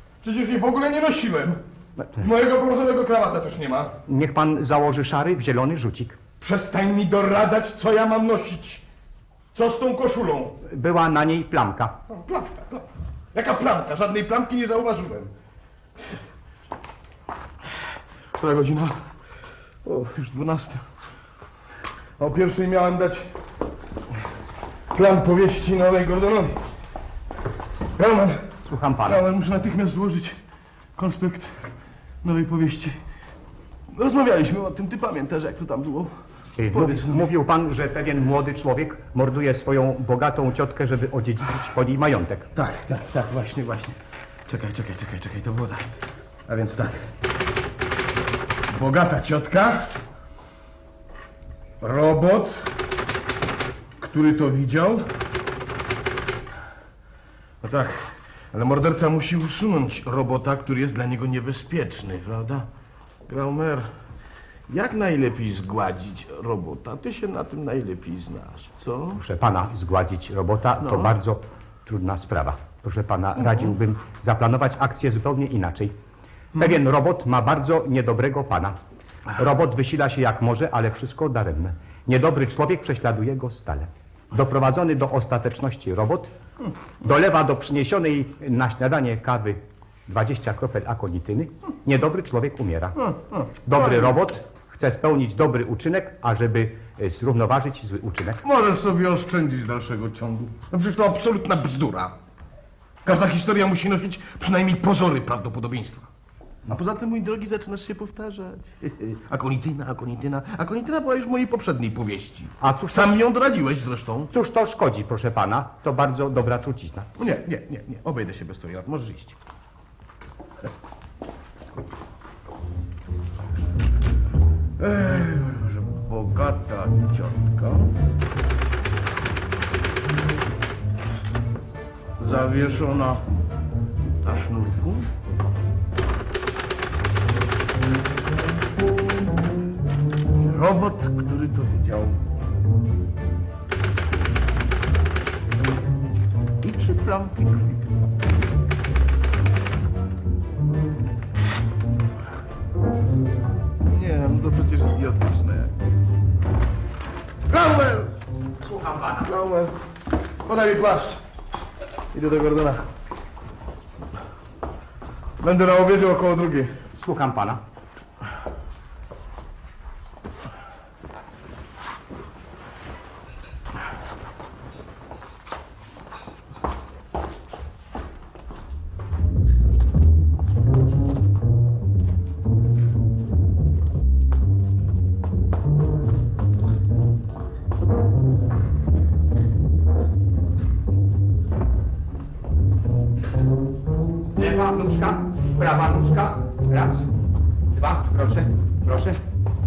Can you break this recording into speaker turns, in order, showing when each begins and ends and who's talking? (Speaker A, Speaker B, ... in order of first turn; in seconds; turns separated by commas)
Speaker A: 0.2-1.6, Speaker A: 2.2-4.0, Speaker B: 4.1-6.2, Speaker A: 6.4-8.8, Speaker A: 9.5-10.6, Speaker B: 10.7-12.0, Speaker A: 12.1-15.3, Speaker A: 18.4-19.1, Speaker A: 19.8-20.9, Speaker A: 22.2-23.3, Speaker A: 24.9-26.6, Speaker A: 28.0-28.5, Speaker B: 28.6-29.2, Speaker A: 29.0-30.4, Speaker A: 31.0-31.7, Speaker A: 32.2-33.0, Speaker A: 33.9-36.1, Speaker B: 36.6-42.5, Speaker A: 36.7-37.2, Speaker A: 42.5-45.9, Speaker A: 46.5-47.1, Speaker A: 48.7-49.9, Speaker A: 51.8-52.7, Speaker A: 54.0-55.1, Speaker A: 57.6-62.7, Speaker A: 63.3-63.9, Speaker A: 64.7-69.2, Speaker B: 69.2-75.9, Speaker A: 70.8-71.1, Speaker B: 76.6-78.8, Speaker B: 79.4-86.3, Speaker B: 87.0-93.0, Speaker A: 93.0-94.2, Speaker B: 93.7-98.4, Speaker A: 98.4-102.2, Speaker A: 103.0-106.1, Speaker A: 106.7-114.3, Speaker B: 112.6-113.2, Speaker B: 114.3-117.1, Speaker A: 117.2-119.4, Speaker A: 124.8-127.9, Speaker A: 132.2-133.2, Speaker A: 134.2-135.1, Speaker A: 140.4-142.2, Speaker A: 146.6-148.0, Speaker A: 153.8-155.7, Speaker A: 157.5-158.2, Speaker B: 158.6-159.3, Speaker A: 159.2-159.8, Speaker A: 160.4-161.2, Speaker A: 162.1-162.9, Speaker A: 165.4-166.8, Speaker B: 167.0-167.6, Speaker B: 194.4-197.1, Speaker B: 197.7-199.2